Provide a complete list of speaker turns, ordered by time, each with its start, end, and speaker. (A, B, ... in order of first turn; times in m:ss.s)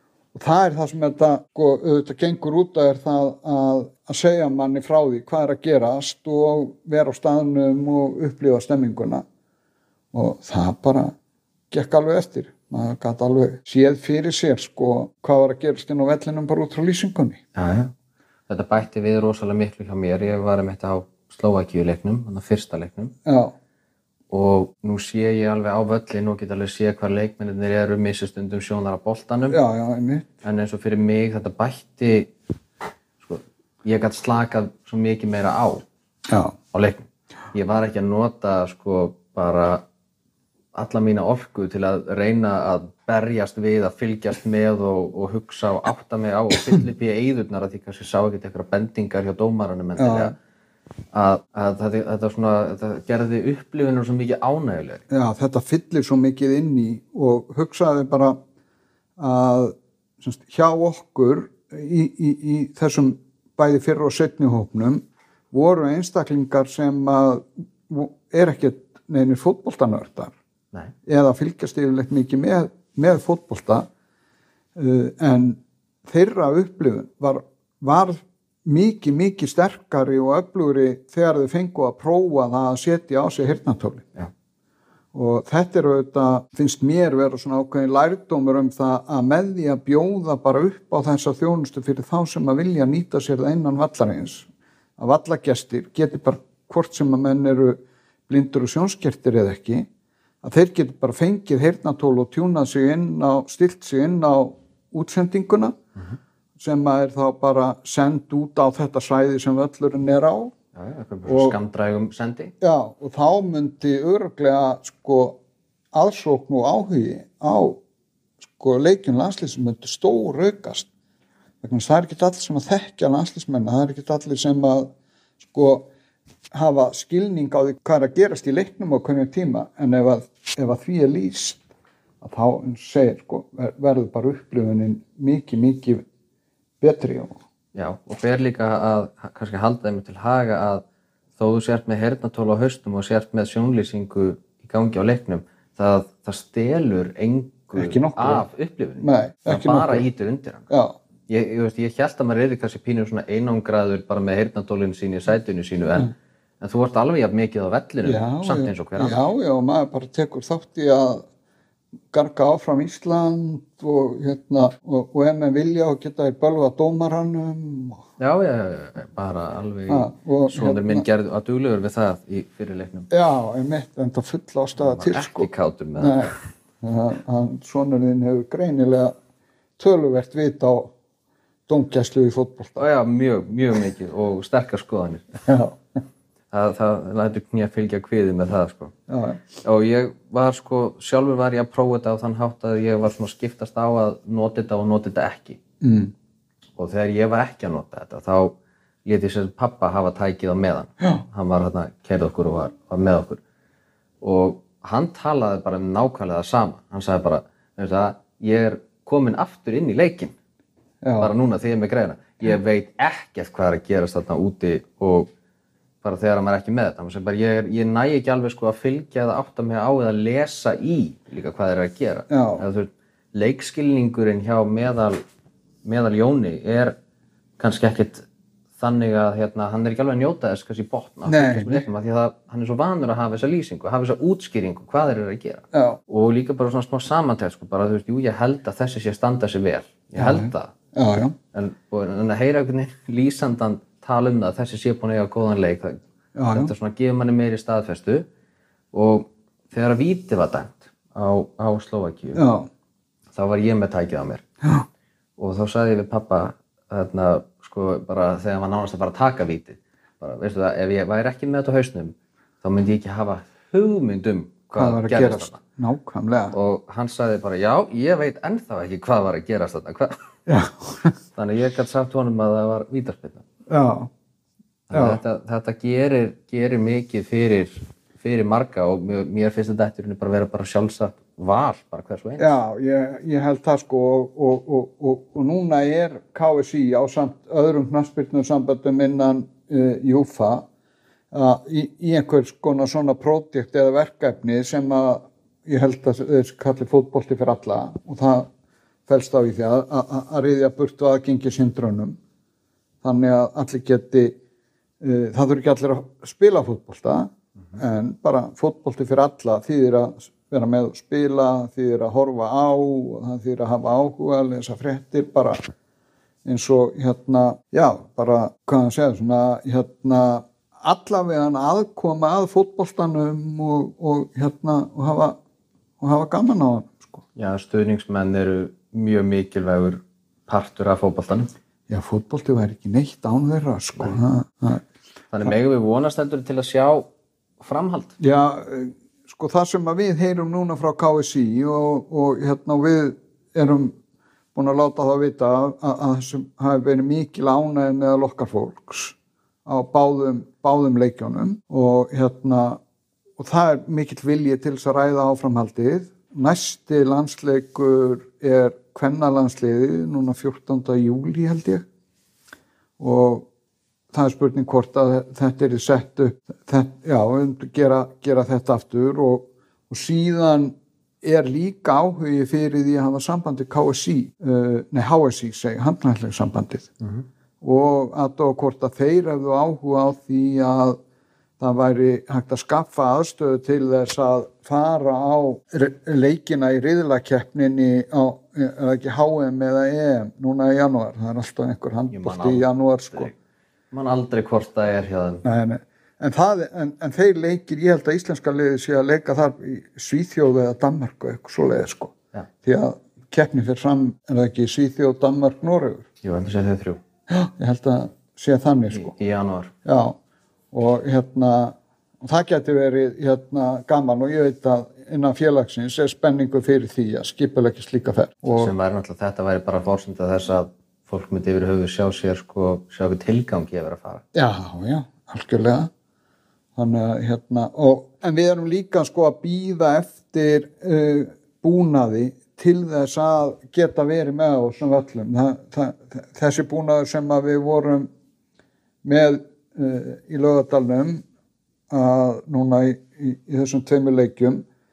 0:00.4-0:09.2 A
0:10.1-0:11.1 A
0:11.7-0:17.4 A
0:17.6-0:17.9 B
0:18.5-0:23.1 B
0:23.3-0:23.5 A
0:24.3-0:29.6 B
0:29.5-0:30.3 A
0:30.4-0:32.3 B
0:33.2-0:35.8 B
0:36.3-0:36.6 A
0:36.7-0:39.8 B
0:40.8-0:50.3 B
0:50.0-0:50.3 A
0:51.1-0:55.0 B
0:55.1-0:58.4 A
0:59.2-1:10.3 A
1:11.1-1:13.9 A
1:14.8-1:24.1 A
1:25.1-1:34.5 A
1:35.0-1:39.9 A
1:40.4-1:45.8 A
1:46.6-1:50.5 A
1:50.8-1:52.5 B
1:51.3-1:51.6 A
1:52.6-1:55.4 A
1:55.9-1:57.8 A
1:58.5-2:00.9 A
2:01.6-2:04.9 A
2:05.5-2:05.9 A
2:06.5-2:11.6 A
2:12.2-2:16.0 A
2:16.8-2:17.4 A
2:17.8-2:20.8 B
2:21.4-2:30.7 B
2:27.8-2:28.4 A
2:29.0-2:30.1 A
2:30.7-2:31.0 A
2:31.3-2:39.2 B
2:38.0-2:41.2 A
2:42.1-2:48.0 A
2:48.2-2:53.1 B
2:49.9-2:51.0 A
2:53.1-2:59.2 A
2:54.8-2:56.3 B
2:59.8-3:00.9 A
3:01.7-3:02.8 A
3:02.8-3:05.4 B
3:05.5-3:05.8 A
3:06.5-3:08.9 B
3:09.1-3:09.4 A
3:09.6-3:15.6 B
3:15.8-3:16.1 A
3:16.8-3:18.6 B
3:19.1-3:23.4 B
3:24.2-3:30.4 B
3:31.0-3:31.3 A
3:31.2-3:35.3 B
3:36.0-3:45.2 B
3:42.3-3:42.6 A
3:45.8-3:47.0 B
3:47.6-3:48.2 B
3:48.8-4:00.7 B
3:51.3-3:51.8 A
3:55.7-3:56.0 A
4:00.2-4:01.4 A
4:01.5-4:06.0 B
4:06.4-4:06.7 A
4:06.5-4:08.3 B
4:08.9-4:12.4 B
4:12.4-4:12.7 A
4:13.4-4:14.4 B
4:15.4-4:25.6 B
4:24.8-4:26.5 A
4:26.5-4:30.1 B
4:30.5-4:31.2 A
4:31.4-4:33.4 B
4:33.7-4:34.1 A
4:34.9-4:42.5 B
4:34.9-4:35.2 A
4:42.4-4:50.7 A
4:51.3-4:58.5 A
4:59.1-5:02.2 A
5:03.0-5:04.4 A
5:05.0-5:15.7 A
5:16.4-5:25.4 A
5:26.0-5:27.2 A
5:27.4-5:31.5 B
5:31.9-5:34.8 A
5:35.3-5:37.1 B
5:37.6-5:38.1 B
5:38.2-5:44.0 A
5:44.6-5:49.2 A
5:49.7-5:52.8 A
5:53.4-6:01.8 A
6:03.0-6:03.5 A
6:04.1-6:16.9 A
6:17.6-6:21.0 A
6:21.6-6:33.3 A
6:32.1-6:33.3 B
6:33.9-6:35.4 B
6:35.4-6:42.1 A
6:42.6-6:46.1 A
6:46.2-6:47.0 B
6:47.3-6:49.1 A
6:48.9-6:49.7 B
6:49.8-6:50.2 A
6:50.7-6:58.7 A
6:58.6-7:04.2 B
7:04.3-7:05.9 A
7:06.8-7:18.1 A
7:19.0-7:21.2 A
7:21.9-7:24.6 A